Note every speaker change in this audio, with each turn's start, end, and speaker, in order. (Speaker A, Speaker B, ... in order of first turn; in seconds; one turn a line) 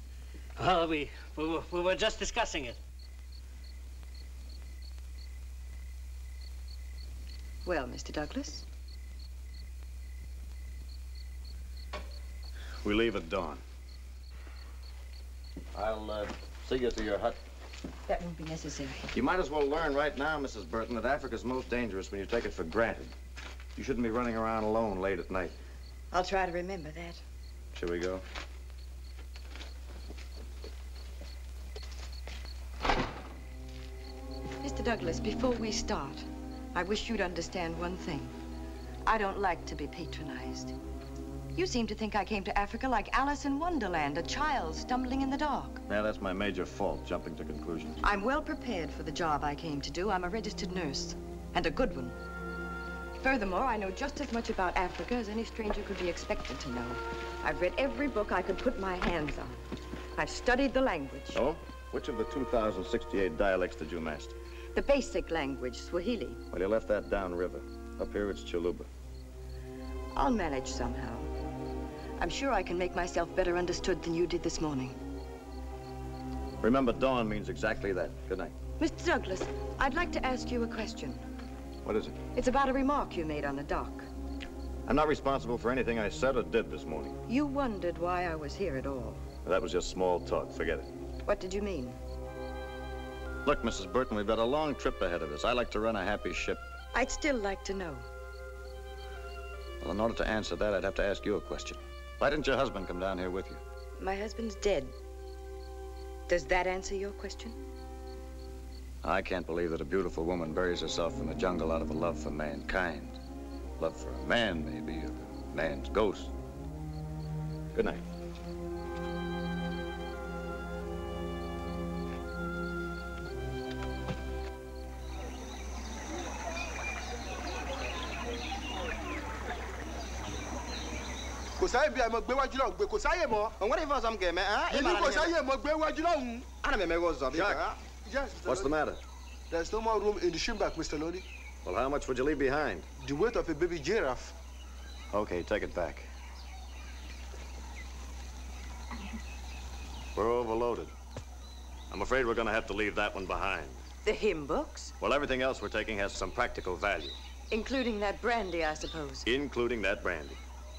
Speaker A: 0.6-2.8
Speaker B: 7.7-8.7
Speaker C: 12.8-13.6
Speaker C: 15.7-17.4
Speaker B: 18.1-19.1
Speaker C: 19.1-23.1
Speaker C: 23.8-25.6
Speaker B: 26.1-27.2
Speaker C: 27.7-28.2
Speaker B: 34.6-38.3
Speaker B: 39.1-40.8
Speaker B: 41.5-45.8
Speaker C: 45.9-48.0
Speaker B: 48.0-52.2
Speaker B: 53.2-61.4
Speaker C: 61.3-64.4
Speaker B: 64.8-66.4
Speaker C: 66.5-68.9
Speaker B: 70.2-71.3
Speaker B: 72.2-75.0
Speaker C: 76.6-78.6
Speaker B: 78.8-81.2
Speaker C: 81.8-82.2
Speaker B: 82.3-84.1
Speaker C: 84.9-87.2
Speaker B: 87.3-89.2
Speaker C: 89.4-90.9
Speaker B: 91.2-92.0
Speaker C: 93.4-96.7
Speaker B: 96.9-98.1
Speaker C: 99.8-103.6
Speaker B: 104.0-104.9
Speaker B: 106.3-107.6
Speaker C: 109.0-113.2
Speaker C: 113.8-116.3
Speaker C: 117.7-118.0
Speaker D: 131.6-133.6
Speaker E: 133.6-135.3
Speaker D: 134.7-136.5
Speaker E: 136.6-137.8
Speaker C: 137.3-137.7
Speaker D: 138.1-138.7
Speaker C: 138.4-139.0
Speaker D: 139.5-141.2
Speaker C: 141.6-142.9
Speaker D: 143.0-144.3
Speaker C: 145.1-146.1
Speaker C: 150.2-150.9
Speaker C: 151.9-153.8
Speaker B: 154.1-154.9
Speaker C: 155.0-157.2
Speaker B: 157.5-159.3
Speaker C: 159.3-160.4